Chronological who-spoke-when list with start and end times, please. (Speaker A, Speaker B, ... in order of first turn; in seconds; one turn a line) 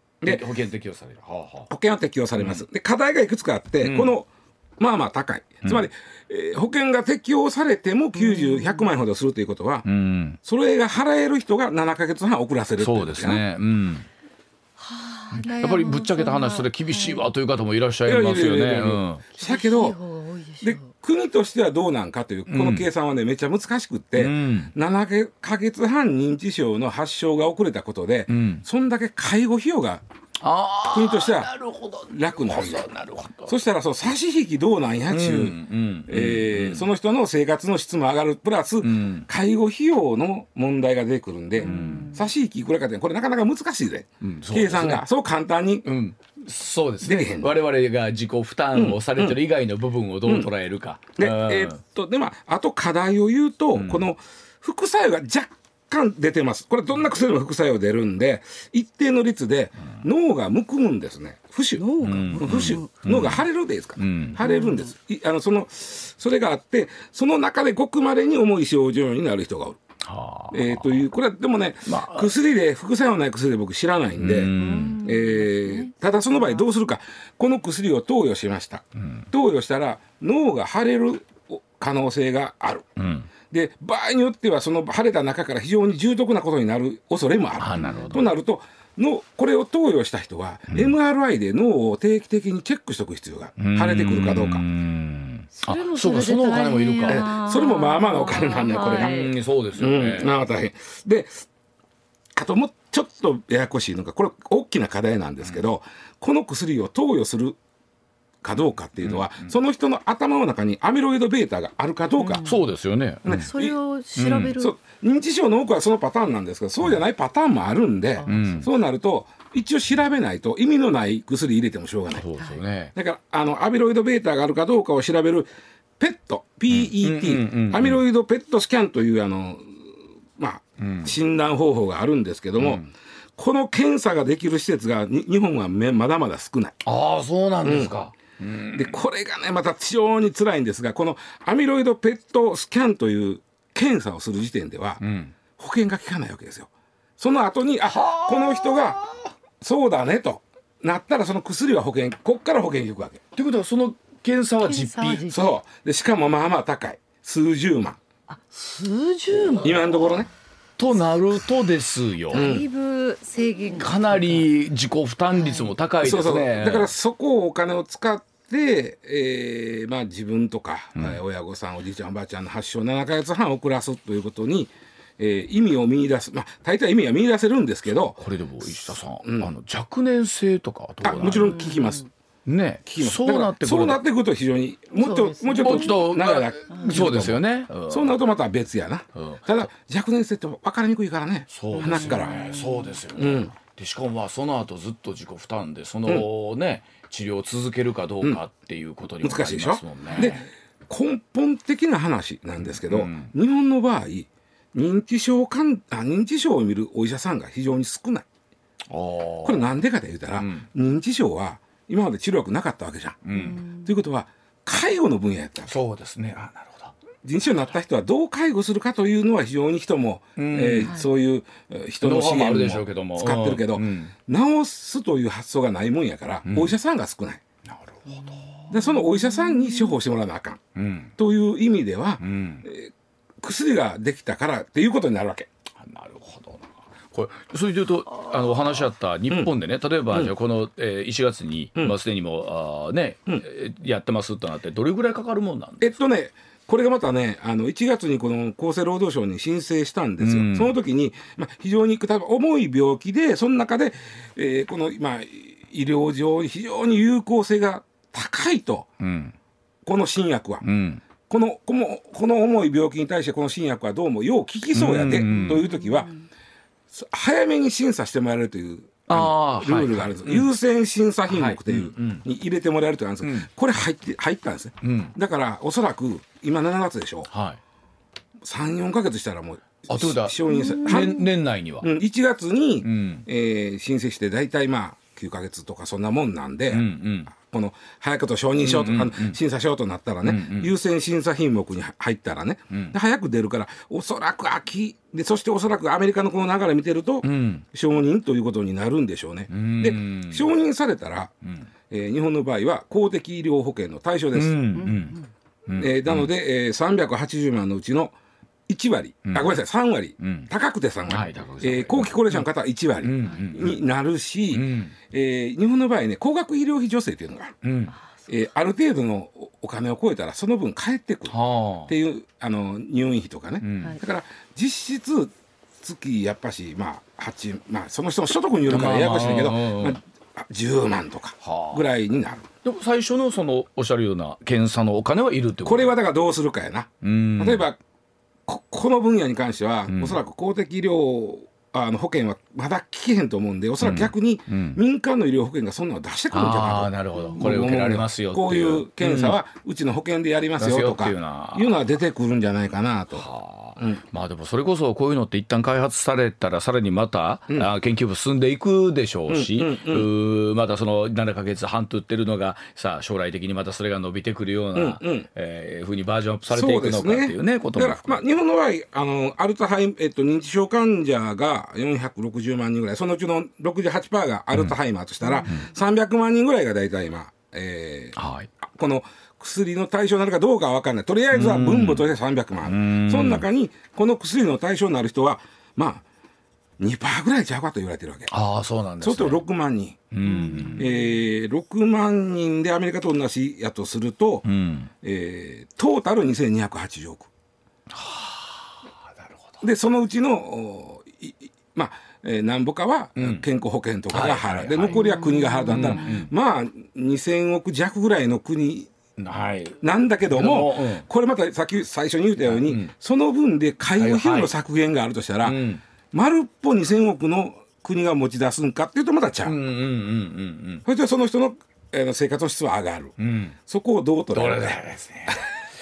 Speaker A: 0.2-0.5
Speaker B: 0.2-1.7
Speaker A: 1.7-9.8
Speaker B: 2.4-2.6
Speaker B: 3.8-4.1
Speaker C: 8.2-8.9
Speaker B: 9.8-10.4
Speaker A: 10.4-13.4
Speaker B: 12.8-14.1
Speaker C: 14.8-17.3
Speaker B: 15.3-19.2
Speaker A: 18.1-20.0
Speaker C: 19.4-20.9
Speaker A: 20.6-30.0
Speaker B: 22.5-22.9
Speaker B: 24.1-24.7
Speaker B: 28.3-28.6
Speaker B: 30.4-33.5
Speaker A: 30.9-31.5
Speaker A: 32.1-32.8
Speaker A: 33.5-45.9
Speaker B: 35.1-36.9
Speaker B: 38.8-39.3
Speaker B: 41.6-42.1
Speaker C: 41.6-42.2
Speaker B: 44.2-45.0
Speaker B: 45.8-51.8
Speaker A: 47.0-47.5
Speaker A: 48.7-49.4
Speaker A: 51.2-69.8
Speaker B: 53.7-54.1
Speaker C: 61.8-62.9
Speaker B: 62.0-63.4
Speaker B: 64.0-64.4
Speaker C: 64.4-64.9
Speaker B: 70.0-71.0
Speaker A: 70.5-82.8
Speaker B: 71.8-72.3
Speaker B: 74.2-75.0
Speaker C: 74.5-76.6
Speaker B: 79.0-79.2
Speaker B: 83.0-83.3
Speaker A: 83.5-94.6
Speaker B: 87.6-88.3
Speaker C: 87.8-88.2
Speaker B: 93.6-97.3
Speaker C: 95.5-99.3
Speaker A: 97.0-101.4
Speaker B: 98.7-100.3
Speaker A: 102.3-107.6
Speaker A: 108.4-112.4
Speaker B: 109.0-109.5
Speaker C: 112.2-112.6
Speaker B: 112.4-113.5
Speaker A: 113.2-113.7
Speaker C: 113.3-114.7
Speaker B: 114.2-114.5
Speaker A: 114.6-122.2
Speaker C: 118.2-118.5
Speaker B: 118.2-118.7
Speaker B: 122.1-122.9
Speaker A: 122.9-125.5
Speaker A: 126.0-132.8
Speaker B: 126.7-128.0
Speaker B: 130.8-131.1
Speaker B: 132.6-132.9
Speaker A: 133.4-136.8
Speaker B: 136.8-139.0
Speaker A: 137.6-137.9
Speaker A: 138.7-145.0
Speaker B: 145.0-145.3
Speaker A: 145.6-149.0
Speaker B: 147.8-149.3
Speaker A: 149.6-153.2
Speaker B: 153.3-155.2
Speaker C: 154.6-155.6
Speaker A: 155.3-158.0
Speaker C: 158.3-159.9
Speaker A: 159.6-160.3
Speaker B: 160.8-162.5
Speaker C: 162.3-164.5
Speaker A: 162.3-162.7
Speaker B: 163.8-166.9
Speaker C: 165.3-165.7
Speaker A: 166.0-178.2
Speaker B: 178.2-181.6
Speaker A: 179.2-179.5
Speaker A: 181.0-182.1
Speaker C: 181.3-182.0
Speaker B: 182.4-184.0
Speaker A: 182.9-192.4
Speaker C: 185.0-185.9
Speaker B: 185.6-188.1
Speaker C: 186.7-187.0
Speaker B: 189.1-189.7
Speaker B: 191.5-200.3
Speaker C: 191.7-192.9
Speaker A: 193.2-193.5
Speaker A: 199.2-208.2
Speaker C: 200.1-200.4
Speaker B: 202.7-203.3
Speaker B: 208.9-209.6
Speaker A: 209.4-215.7
Speaker B: 210.3-210.7
Speaker B: 213.2-213.6
Speaker C: 213.3-213.9
Speaker B: 215.7-216.9
Speaker A: 217.2-227.4
Speaker B: 220.3-220.9
Speaker B: 222.0-224.1
Speaker B: 226.4-226.7
Speaker B: 227.7-228.6
Speaker C: 228.7-229.8
Speaker A: 228.7-230.6
Speaker B: 230.7-231.1
Speaker A: 231.2-235.5
Speaker B: 232.2-232.7
Speaker B: 235.8-245.9
Speaker A: 245.8-258.9
Speaker B: 250.2-250.7
Speaker B: 259.0-259.3
Speaker A: 259.8-260.6
Speaker B: 260.6-261.0
Speaker A: 261.2-266.1
Speaker B: 264.7-265.6
Speaker C: 265.2-266.1
Speaker A: 266.9-277.3
Speaker B: 269.1-270.5
Speaker B: 271.3-272.2
Speaker B: 273.2-273.5
Speaker B: 274.8-275.1
Speaker B: 277.3-277.6
Speaker A: 278.4-281.2
Speaker B: 279.9-281.9
Speaker C: 280.4-281.3
Speaker A: 281.8-301.3
Speaker B: 282.8-283.2
Speaker B: 286.7-287.3
Speaker B: 288.6-289.4
Speaker B: 290.2-290.7
Speaker B: 297.2-297.6
Speaker B: 299.5-300.5
Speaker A: 301.9-304.7
Speaker B: 304.3-306.3
Speaker C: 304.9-305.2
Speaker A: 305.8-308.1
Speaker A: 308.7-317.6
Speaker B: 309.2-309.6
Speaker B: 310.2-310.5
Speaker B: 311.1-312.4
Speaker B: 313.0-313.8
Speaker B: 314.5-314.9
Speaker B: 317.6-317.9
Speaker A: 318.3-332.5
Speaker B: 321.3-321.9
Speaker B: 323.6-324.0
Speaker B: 328.7-330.0
Speaker B: 331.4-331.9
Speaker B: 332.6-335.9
Speaker A: 335.6-337.8
Speaker B: 337.0-337.6
Speaker A: 338.4-354.0
Speaker B: 339.9-340.2
Speaker B: 343.8-344.8
Speaker B: 346.3-349.4
Speaker B: 350.6-351.8
Speaker B: 353.1-368.2
Speaker A: 359.3-360.1
Speaker A: 364.7-365.3
Speaker A: 366.5-386.0
Speaker B: 378.1-378.5
Speaker B: 381.3-382.0
Speaker B: 382.6-383.4
Speaker A: 386.8-388.3
Speaker B: 388.3-389.4
Speaker A: 389.0-390.0
Speaker B: 390.1-390.9
Speaker C: 390.2-391.1
Speaker A: 390.8-394.5
Speaker B: 394.4-394.9
Speaker A: 395.0-397.3
Speaker B: 397.9-399.5
Speaker A: 399.6-408.9
Speaker B: 403.1-403.4
Speaker B: 404.1-405.0
Speaker C: 404.9-406.2
Speaker B: 405.7-406.3
Speaker B: 409.2-409.8
Speaker A: 409.8-415.6
Speaker B: 410.3-411.1
Speaker B: 412.4-412.9
Speaker B: 414.0-414.5
Speaker B: 415.4-415.8
Speaker A: 416.1-419.6
Speaker B: 419.4-420.8
Speaker A: 420.8-425.4
Speaker B: 423.2-423.6
Speaker B: 424.3-425.4